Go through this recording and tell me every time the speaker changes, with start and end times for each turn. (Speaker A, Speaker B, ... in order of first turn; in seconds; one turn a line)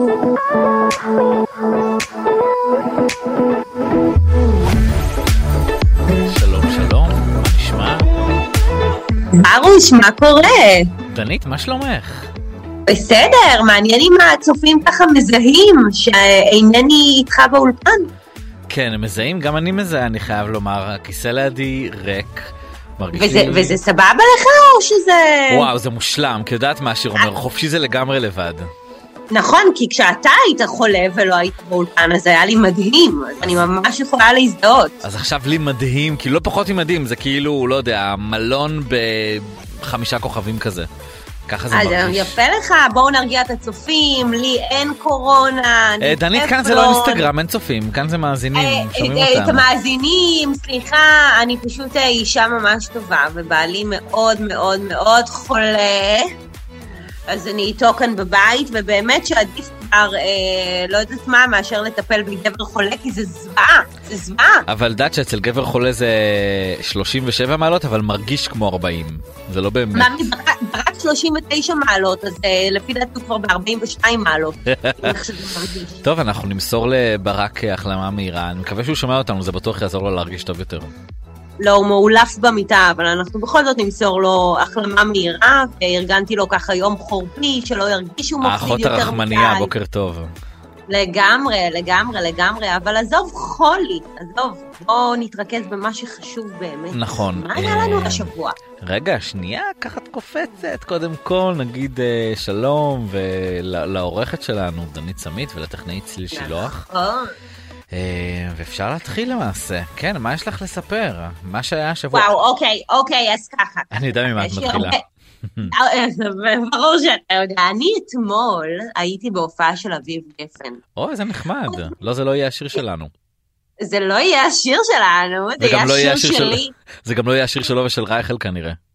Speaker A: 6.3-8.1
Speaker B: 9.3-10.9
Speaker A: 11.1-12.3
Speaker B: 12.9-18.1
Speaker A: 18.7-23.8
Speaker B: 23.1-25.7
Speaker A: 25.5-28.7
Speaker B: 29.3-35.0
Speaker A: 33.4-33.7
Speaker A: 35.0-40.9
Speaker A: 41.5-42.4
Speaker B: 41.7-47.3
Speaker A: 46.0-49.7
Speaker B: 48.5-56.3
Speaker B: 57.3-64.7
Speaker A: 64.7-70.2
Speaker B: 69.9-76.0
Speaker A: 74.7-75.3
Speaker A: 76.0-80.9
Speaker B: 81.6-89.7
Speaker A: 88.4-90.3
Speaker B: 90.9-98.6
Speaker A: 96.9-106.8
Speaker B: 106.3-107.3
Speaker A: 107.9-112.3
Speaker B: 112.1-115.0
Speaker A: 113.9-115.7
Speaker B: 115.6-120.8
Speaker A: 121.0-123.1
Speaker B: 123.8-126.7
Speaker A: 125.6-128.8